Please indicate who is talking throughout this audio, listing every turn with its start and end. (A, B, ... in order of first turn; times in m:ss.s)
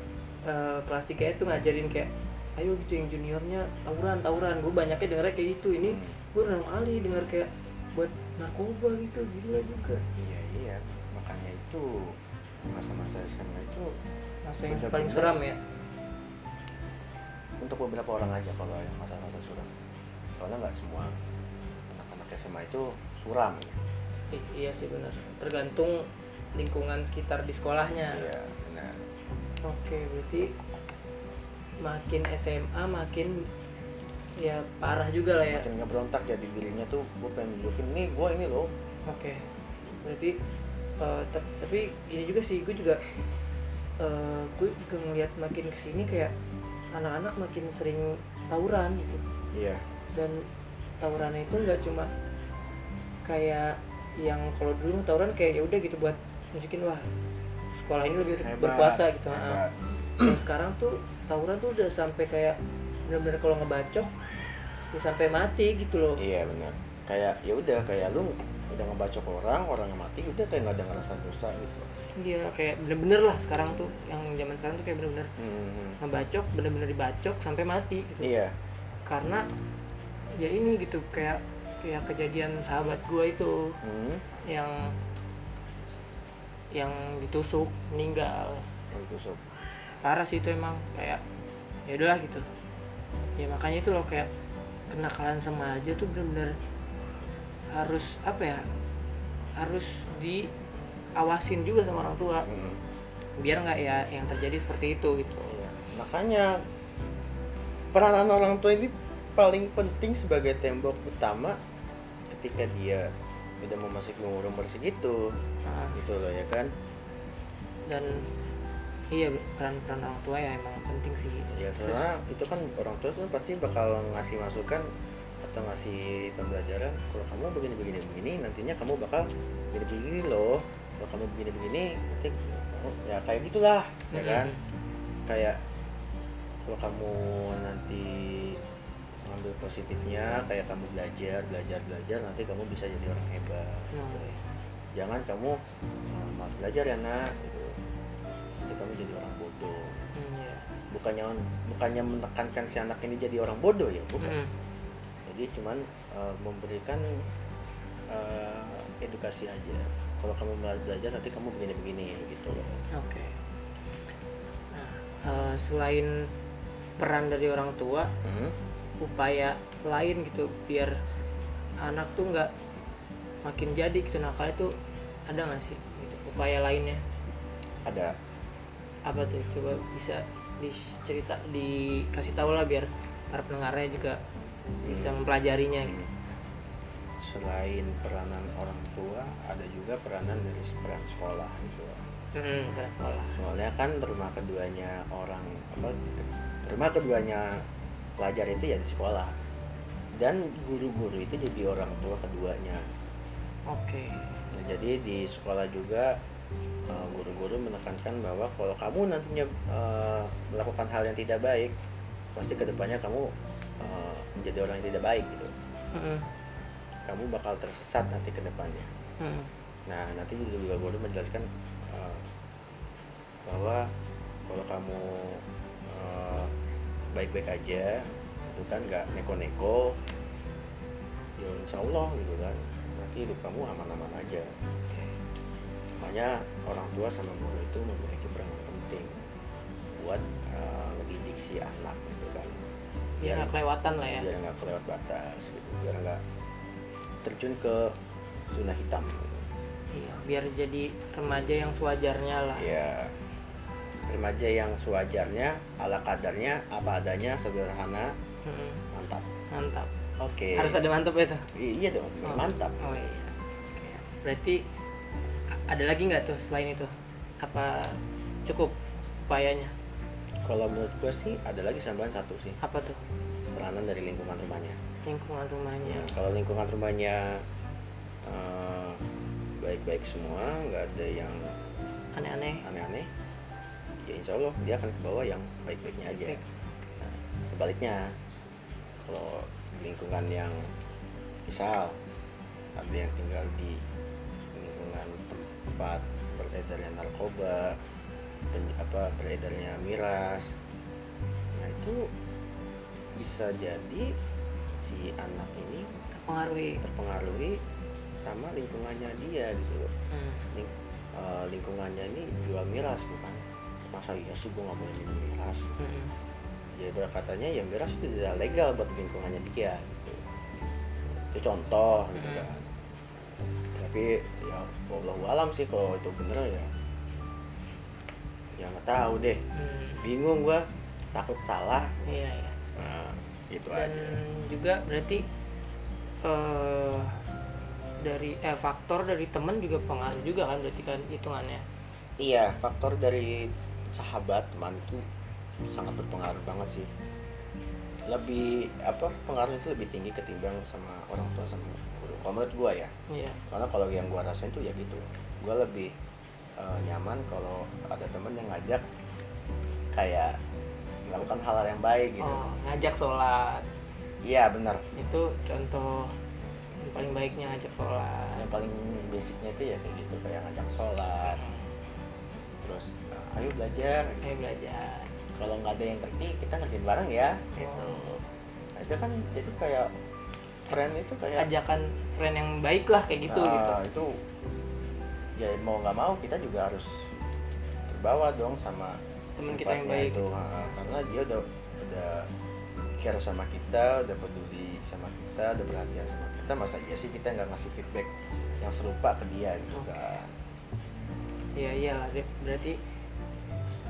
0:00.4-0:10.0 A
0:05.8-0:06.2 B
0:10.2-0:14.0 B
0:14.4-0:15.6 A
0:14.6-0:15.4 B
0:17.6-0:19.7 B
0:20.4-0:21.2 B
0:21.9-0:23.8 B
0:24.3-0:28.3 A
0:28.1-0:29.0 B
0:29.6-0:30.5 A
0:31.8-0:33.5 A
0:34.4-0:35.6 A
0:35.5-0:38.7 B
0:39.1-0:39.4 A
0:40.0-0:40.4 A
0:41.0-0:43.0 A
0:44.0-0:46.3 A
0:46.9-0:49.2 A
0:49.5-0:49.8 B
0:50.1-0:50.5 A
0:51.0-0:52.1 A
0:53.2-0:57.1 A
0:57.8-0:59.6 A
0:58.4-1:00.4 B
1:00.2-1:04.1 A
1:04.9-1:06.2 A
1:06.2-1:12.0 B
1:12.2-1:15.3 A
1:15.4-1:16.0 B
1:16.0-1:18.3 A
1:18.2-1:18.6 B
1:19.0-1:19.4 A
1:20.3-1:23.8 A
1:23.8-1:24.2 B
1:24.4-1:24.9 A
1:26.7-1:28.7 A
1:28.9-1:29.4 B
1:30.0-1:31.2 A
1:31.9-1:32.4 A
1:33.4-1:34.3 A
1:34.9-1:36.5 A
1:37.7-1:38.6 A
1:39.6-1:40.5 A
1:41.2-1:42.5 A
1:42.4-1:42.8 B
1:43.4-1:45.6 A
1:45.5-1:46.6 B
1:47.9-1:51.6 B
1:52.3-1:55.4 B
1:55.6-1:56.0 A
1:55.9-1:56.7 B
1:57.9-1:58.3 A
1:59.1-2:02.0 A
2:01.5-2:04.9 B
2:05.4-2:14.5 B
2:14.1-2:14.6 A
2:15.3-2:15.6 B
2:16.6-2:18.6 B
2:19.2-2:24.3 B
2:23.9-2:24.4 A
2:24.9-2:27.8 B
2:28.6-2:30.0 B
2:30.1-2:30.6 A
2:30.9-2:34.4 B
2:34.2-2:34.5 A
2:35.2-2:37.3 B
2:38.1-2:42.8 B
2:42.9-2:43.4 A
2:44.7-2:46.3 A
2:47.0-2:48.1 A
2:48.2-2:48.6 B
2:49.0-2:51.0 A
2:51.8-2:52.5 A
2:53.4-2:57.0 A
2:57.8-2:58.1 B
2:59.0-3:04.2 A
3:04.8-3:05.1 B
3:04.8-3:06.0 A
3:07.2-3:12.0 B
3:12.3-3:13.4 A
3:13.2-3:17.6 B
3:18.2-3:19.4 B
3:20.2-3:22.8 B
3:23.7-3:24.4 A
3:24.5-3:26.2 B
3:26.9-3:31.7 B
3:32.3-3:35.5 B
3:35.9-3:36.2 A
3:37.1-3:38.9 B
3:39.2-3:39.5 A
3:39.9-3:42.2 B
3:43.5-3:43.9 B
3:44.5-3:46.5 B
3:47.1-3:50.0 B
3:51.4-3:54.5 B
3:56.0-3:59.2 B
3:59.9-4:02.6 B
4:03.2-4:04.3 A
4:03.2-4:03.5 B
4:04.1-4:06.2 B
4:07.2-4:08.0 B
4:08.5-4:09.4 B
4:09.9-4:12.7 A
4:12.6-4:13.2 B
4:14.0-4:18.1 B
4:18.4-4:18.8 A
4:18.9-4:19.3 B
4:19.5-4:19.9 A
4:20.2-4:20.8 B
4:20.5-4:21.4 A
4:21.5-4:22.8 B
4:22.2-4:24.6 A
4:25.5-4:28.7 A
4:29.3-4:29.7 A
4:30.4-4:32.6 B
4:32.6-4:33.0 A
4:33.5-4:34.8 B
4:35.0-4:36.2 A
4:35.8-4:37.4 B
4:38.2-4:39.0 B
4:39.6-4:41.6 B
4:42.1-4:42.6 A
4:42.6-4:43.1 B
4:44.0-4:46.4 B
4:46.2-4:47.0 A
4:47.0-4:48.2 B
4:49.0-4:50.7 B
4:51.5-4:52.0 B
4:52.8-4:53.8 B
4:54.5-4:57.8 B
4:58.5-5:00.6 B
5:01.5-5:02.1 B
5:03.2-5:04.1 B
5:04.8-5:05.9 B
5:06.1-5:06.8 A
5:06.8-5:07.6 B
5:08.2-5:09.9 B
5:10.1-5:10.4 A
5:10.5-5:15.6 B
5:15.8-5:16.1 A
5:16.7-5:20.2 B
5:21.3-5:22.6 B
5:22.1-5:22.5 A
5:23.7-5:26.7 B
5:28.6-5:29.4 B
5:29.5-5:30.0 A
5:30.0-5:32.0 B
5:32.0-5:32.6 A
5:32.7-5:34.2 B
5:33.7-5:35.2 A
5:36.2-5:37.2 A
5:38.0-5:41.6 A
5:42.2-5:45.0 B
5:45.7-5:46.9 B
5:48.1-5:52.9 B
5:53.1-5:53.4 A
5:53.5-5:55.9 B
5:56.6-5:58.8 B
5:59.9-6:00.4 B
6:01.0-6:02.4 B
6:02.2-6:03.7 A
6:04.2-6:04.8 B
6:04.9-6:06.2 A
6:06.8-6:08.4 A
6:08.4-6:11.4 B
6:11.2-6:11.7 A
6:12.6-6:14.2 B
6:14.2-6:15.1 A
6:15.3-6:18.2 B
6:17.5-6:18.2 A
6:18.7-6:19.9 B
6:20.6-6:21.4 B
6:21.4-6:23.8 A
6:23.3-6:24.2 B
6:25.4-6:27.1 B
6:27.9-6:32.3 B
6:29.4-6:30.4 A
6:33.0-6:40.3 B
6:39.7-6:40.2 A
6:41.6-6:42.8 A